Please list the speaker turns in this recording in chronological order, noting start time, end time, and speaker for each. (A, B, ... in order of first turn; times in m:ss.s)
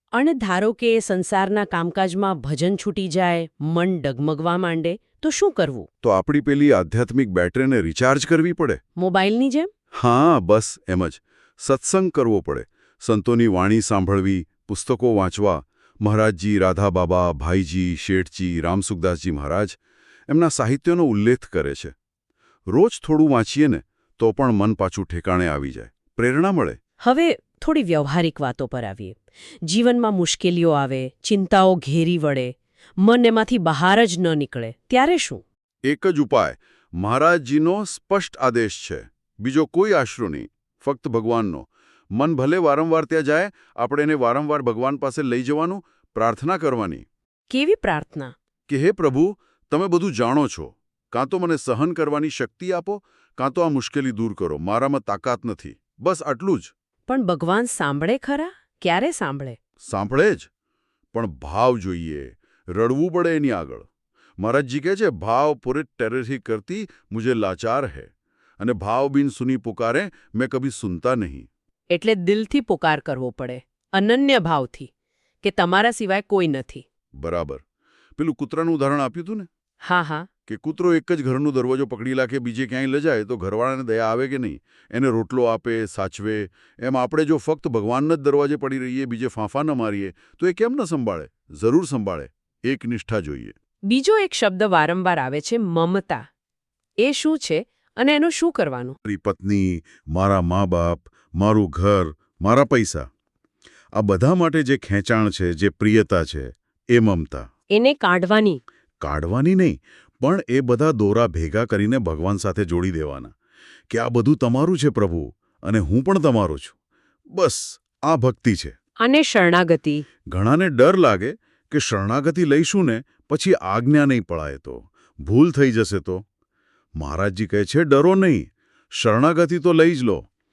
0:00.1-0:05.9 A
0:06.0-0:08.8 B
0:09.0-0:09.7 A
0:10.0-0:19.8 B
0:20.3-0:21.9 B
0:22.7-0:26.8 B
0:27.0-0:35.4 A
0:35.9-0:47.1 B
0:47.5-0:48.3 A
0:48.7-0:56.7 B
0:57.1-0:59.6 A
0:59.8-1:00.5 B
1:01.1-1:03.9 B
1:04.4-1:11.5 B
1:11.9-1:14.9 A
1:15.4-1:16.8 A
1:17.2-1:17.6 B
1:18.2-1:19.5 B
1:19.8-1:20.3 A
1:20.5-1:33.6 B
1:33.9-1:36.3 A
1:37.0-1:39.0 A
1:39.0-1:43.1 B
1:44.0-1:47.5 B
1:47.7-1:48.6 A
1:49.0-1:53.3 B
1:53.9-1:56.8 B
1:57.4-1:58.8 B
1:59.0-2:00.0 A
2:00.3-2:06.2 B
2:07.0-2:10.2 B